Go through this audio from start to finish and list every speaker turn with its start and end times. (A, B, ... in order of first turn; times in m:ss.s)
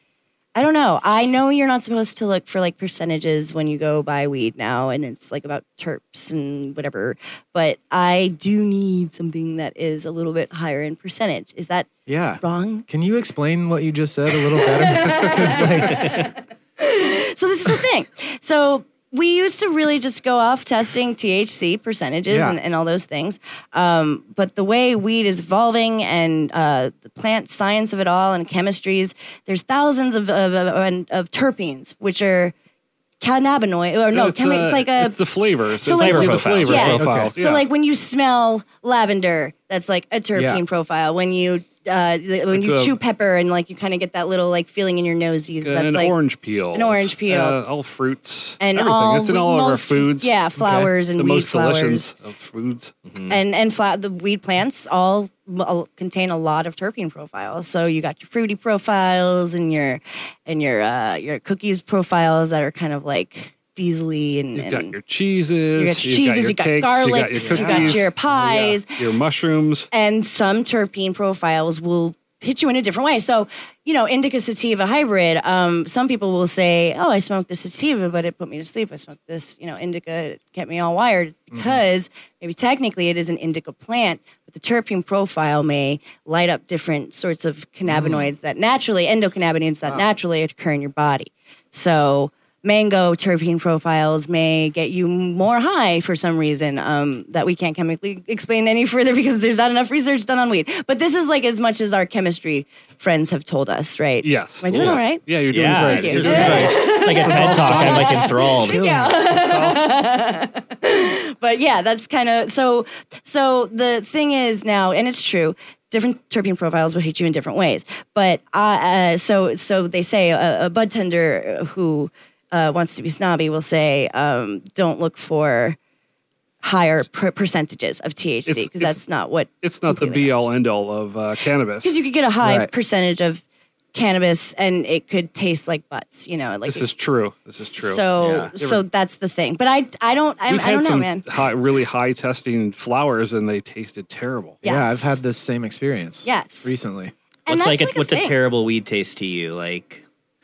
0:00.5-0:11.9 A
0:12.1-0:16.2 B
0:12.4-0:12.8 A
0:14.5-0:32.5 A
0:22.3-0:22.6 B
0:33.2-0:35.2 A
0:34.1-0:37.6 C
0:35.8-0:46.2 A
0:35.8-0:37.1 D
0:36.9-0:37.3 B
0:40.3-0:40.6 B
0:42.5-0:43.0 C
0:45.6-0:52.9 C
0:46.7-0:47.6 A
0:48.6-0:52.1 A
0:50.6-0:50.9 B
0:53.0-0:53.4 D
0:53.3-1:04.9 A
1:04.5-1:09.9 C
1:05.8-1:09.0 A
1:07.4-1:08.0 B
1:09.9-2:05.8 A
1:21.5-1:21.8 B
1:27.8-1:28.3 B
1:44.2-1:48.2 C
1:44.7-1:48.8 D
1:46.3-1:46.7 B
1:48.6-1:49.2 B
1:49.2-1:49.8 C
2:06.6-2:10.4 A
2:08.4-2:09.0 C
2:09.6-2:11.9 C
2:11.8-2:13.4 A
2:12.4-2:12.7 B
2:13.9-2:16.9 A
2:16.6-2:18.8 C
2:17.6-2:21.3 A
2:18.2-2:18.5 D
2:20.5-2:24.6 C
2:24.6-2:25.2 A
2:24.6-2:27.1 B
2:26.2-2:26.7 A
2:27.5-2:28.4 A
2:27.5-2:30.0 D